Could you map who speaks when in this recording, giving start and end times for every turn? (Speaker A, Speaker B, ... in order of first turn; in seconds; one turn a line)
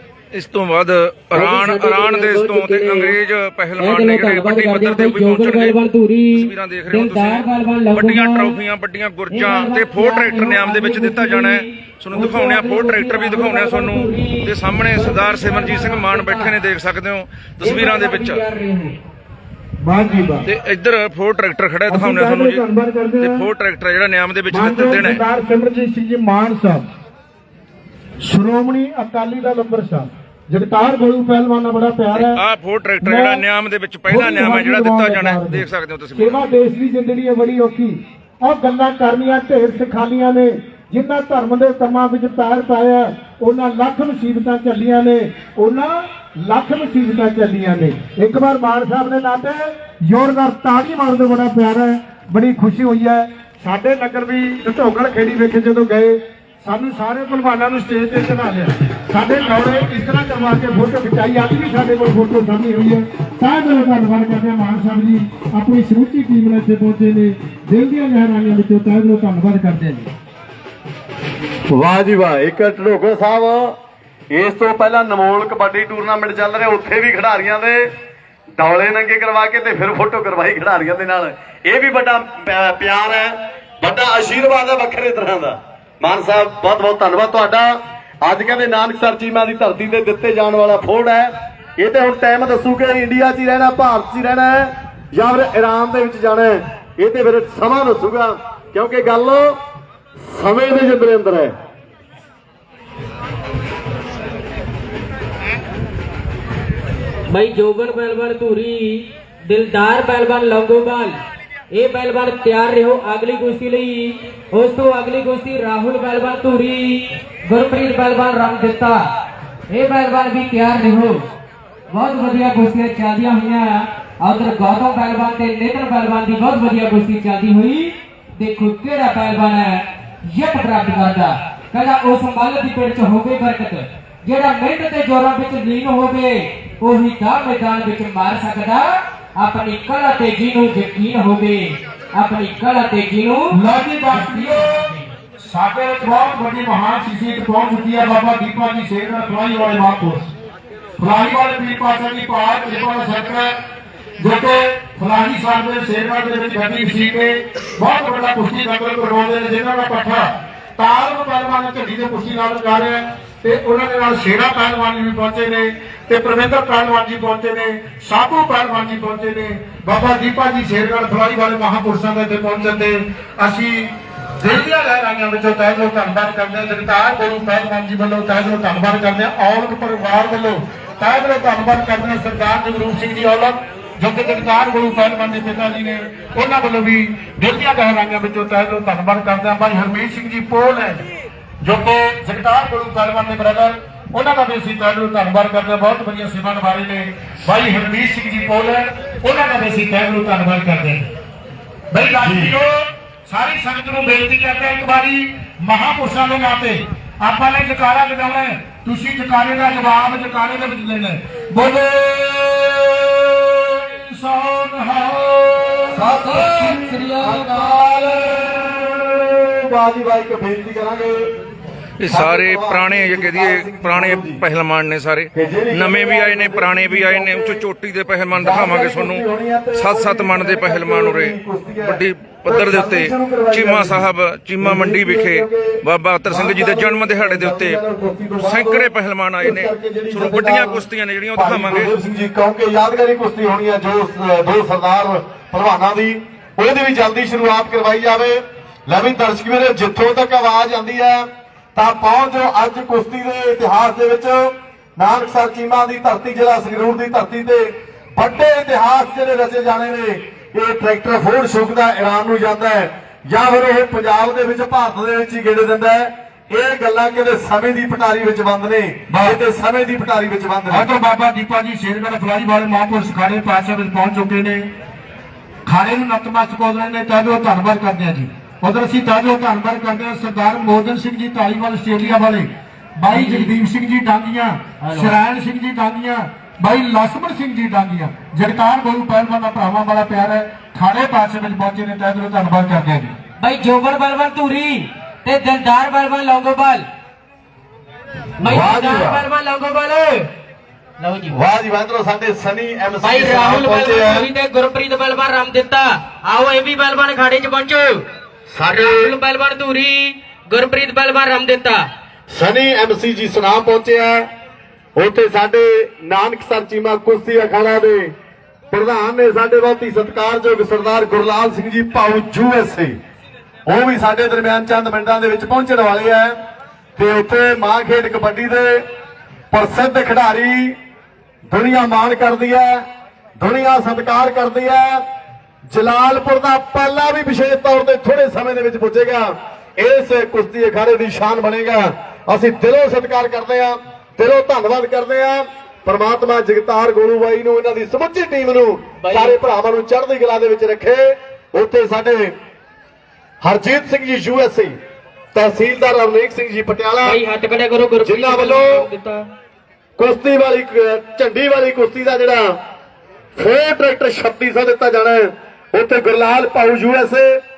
Speaker A: 0.3-5.8
Speaker B: 1.3-3.1
Speaker B: 3.8-8.6
Speaker A: 6.3-18.4
Speaker B: 9.3-16.6
Speaker B: 17.6-19.0
Speaker C: 19.8-20.5
Speaker A: 20.5-22.6
Speaker C: 21.9-23.5
Speaker A: 23.2-25.2
Speaker C: 24.5-26.9
Speaker C: 28.2-32.4
Speaker A: 32.1-36.4
Speaker C: 33.0-33.4
Speaker C: 34.1-70.1
Speaker D: 71.7-73.8
Speaker D: 74.3-77.9
Speaker D: 78.6-99.5
Speaker D: 100.2-101.5
Speaker B: 107.3-111.2
Speaker B: 111.7-119.1
Speaker B: 119.7-121.2
Speaker B: 121.9-143.6
Speaker C: 143.5-144.9
Speaker B: 144.1-145.1
Speaker C: 145.4-150.3
Speaker C: 151.0-153.5
Speaker C: 154.2-191.1
Speaker C: 191.6-201.1
Speaker C: 201.9-202.7
Speaker D: 202.2-202.6
Speaker C: 203.3-216.1
Speaker D: 215.9-221.3
Speaker B: 216.1-217.8
Speaker A: 222.0-237.8
Speaker D: 222.1-224.4
Speaker D: 225.3-227.7
Speaker D: 228.3-234.1
Speaker D: 234.6-238.9
Speaker A: 238.4-241.9
Speaker D: 239.4-270.9
Speaker C: 269.1-269.4
Speaker C: 270.7-274.7
Speaker C: 275.7-293.1
Speaker B: 283.1-283.5
Speaker B: 284.8-285.1
Speaker B: 293.4-296.9
Speaker B: 298.4-300.3
Speaker D: 298.4-299.2
Speaker B: 301.0-301.4
Speaker D: 301.3-304.3
Speaker B: 303.0-308.0
Speaker D: 308.5-309.1
Speaker B: 308.7-311.8
Speaker D: 312.3-314.2
Speaker D: 315.0-318.1
Speaker D: 318.7-323.0
Speaker D: 323.7-326.4
Speaker D: 327.0-328.8
Speaker D: 329.5-330.8
Speaker D: 331.5-332.8
Speaker D: 333.4-335.0
Speaker D: 335.7-352.3
Speaker B: 349.0-349.4
Speaker D: 353.4-354.8
Speaker D: 355.3-357.2
Speaker B: 357.0-359.3
Speaker D: 358.0-358.8
Speaker D: 360.0-362.5
Speaker D: 363.4-367.4